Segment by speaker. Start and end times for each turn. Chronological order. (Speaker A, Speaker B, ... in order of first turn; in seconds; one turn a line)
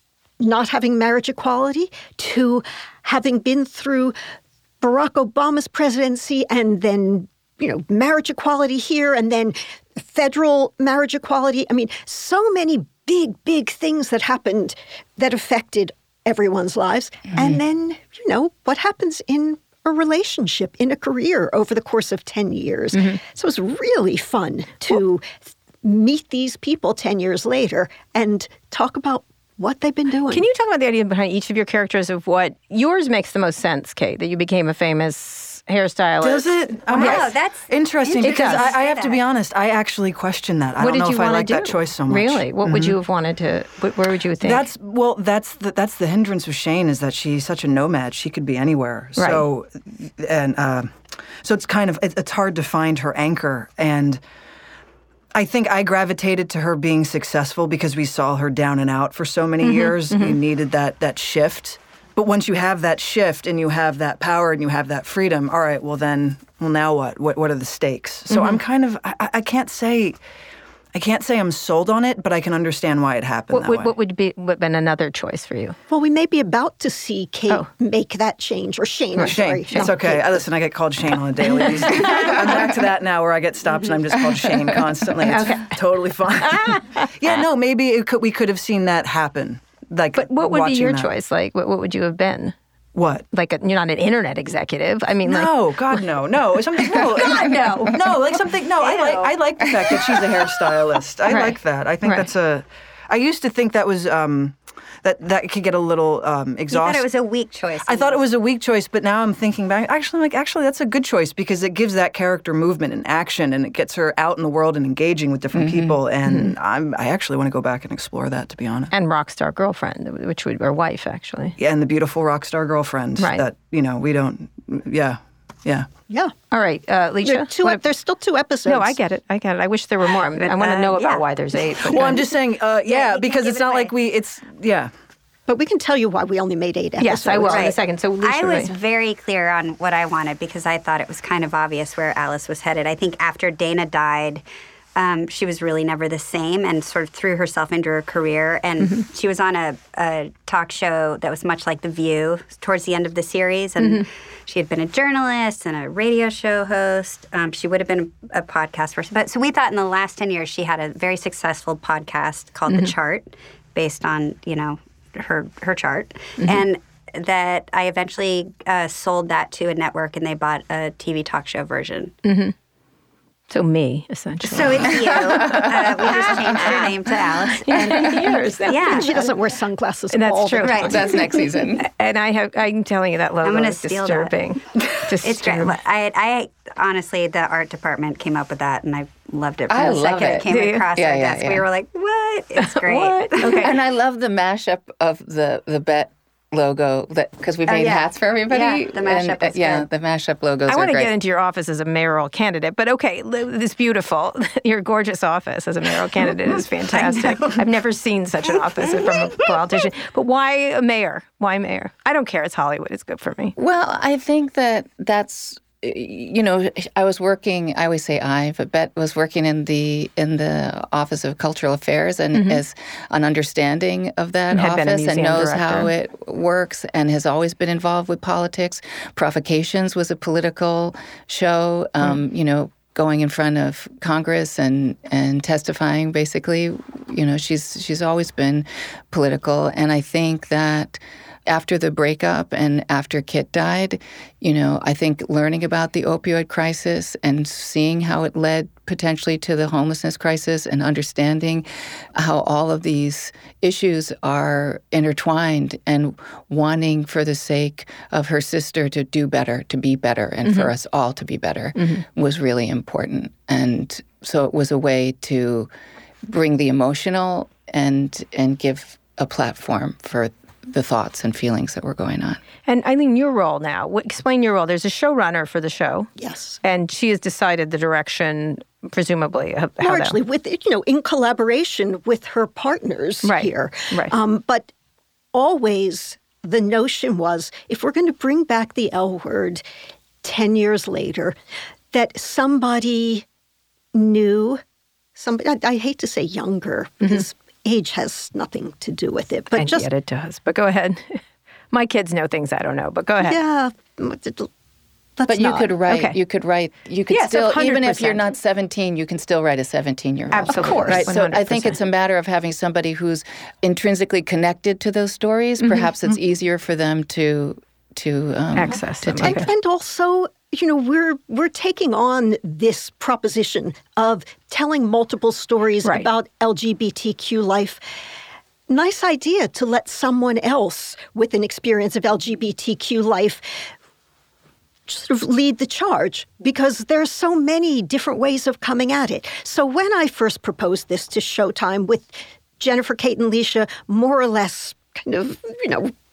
Speaker A: 0.4-4.1
Speaker A: 4.8-30.5
Speaker B: 17.3-17.6
Speaker C: 22.9-23.2
Speaker C: 30.3-37.3
Speaker D: 36.2-43.0
Speaker E: 36.9-39.2
Speaker C: 38.2-38.7
Speaker C: 40.8-44.7
Speaker D: 44.4-54.2
Speaker C: 49.2-49.4
Speaker D: 55.3-70.2
Speaker C: 59.6-60.4
Speaker C: 68.3-68.6
Speaker D: 70.9-73.9
Speaker C: 73.5-75.8
Speaker A: 75.9-80.4
Speaker C: 79.2-79.9
Speaker D: 79.2-91.1
Speaker C: 81.6-82.5
Speaker C: 85.2-85.8
Speaker C: 86.4-87.4
Speaker C: 90.1-92.5
Speaker D: 92.9-93.2
Speaker C: 93.3-96.0
Speaker D: 95.2-107.1
Speaker C: 97.2-97.9
Speaker E: 98.8-99.3
Speaker C: 101.3-102.3
Speaker E: 106.7-108.2
Speaker D: 107.8-118.9
Speaker B: 115.5-116.0
Speaker C: 116.3-116.5
Speaker C: 118.9-121.5
Speaker D: 121.6-125.8
Speaker C: 123.2-123.4
Speaker C: 126.5-127.8
Speaker A: 127.2-128.9
Speaker C: 128.7-132.2
Speaker E: 130.3-131.2
Speaker D: 131.9-134.9
Speaker E: 132.8-133.9
Speaker A: 135.5-137.7
Speaker C: 137.0-138.7
Speaker E: 137.5-144.4
Speaker E: 144.9-172.1
Speaker C: 153.8-154.1
Speaker C: 172.2-172.5
Speaker C: 173.5-179.3
Speaker E: 174.4-179.1
Speaker B: 174.9-175.9
Speaker A: 178.8-181.1
Speaker C: 180.1-185.8
Speaker E: 180.6-181.1
Speaker B: 180.7-181.9
Speaker E: 183.4-193.8
Speaker B: 189.7-191.6
Speaker C: 190.5-190.8
Speaker C: 192.6-193.7
Speaker B: 193.6-201.1
Speaker E: 197.7-199.9
Speaker C: 200.7-213.5
Speaker E: 206.9-207.6
Speaker E: 208.9-209.3
Speaker B: 213.6-265.7
Speaker C: 222.3-222.6
Speaker C: 224.5-225.9
Speaker C: 260.4-260.7
Speaker C: 261.8-262.0
Speaker B: 266.2-272.4
Speaker C: 272.6-276.1
Speaker A: 276.2-276.6
Speaker C: 276.6-280.2
Speaker A: 279.8-284.7
Speaker C: 283.2-284.1
Speaker A: 285.3-289.6
Speaker A: 290.2-291.3
Speaker A: 291.9-293.2
Speaker A: 293.9-294.6
Speaker A: 295.1-299.9
Speaker C: 299.5-301.2
Speaker C: 301.7-303.4
Speaker A: 303.2-304.5
Speaker A: 305.2-305.7
Speaker B: 305.3-319.5
Speaker C: 305.9-306.2
Speaker C: 307.1-308.3
Speaker C: 310.3-311.8
Speaker A: 310.5-311.1
Speaker C: 318.5-319.5
Speaker A: 319.2-327.8
Speaker A: 328.7-333.7
Speaker A: 334.9-345.9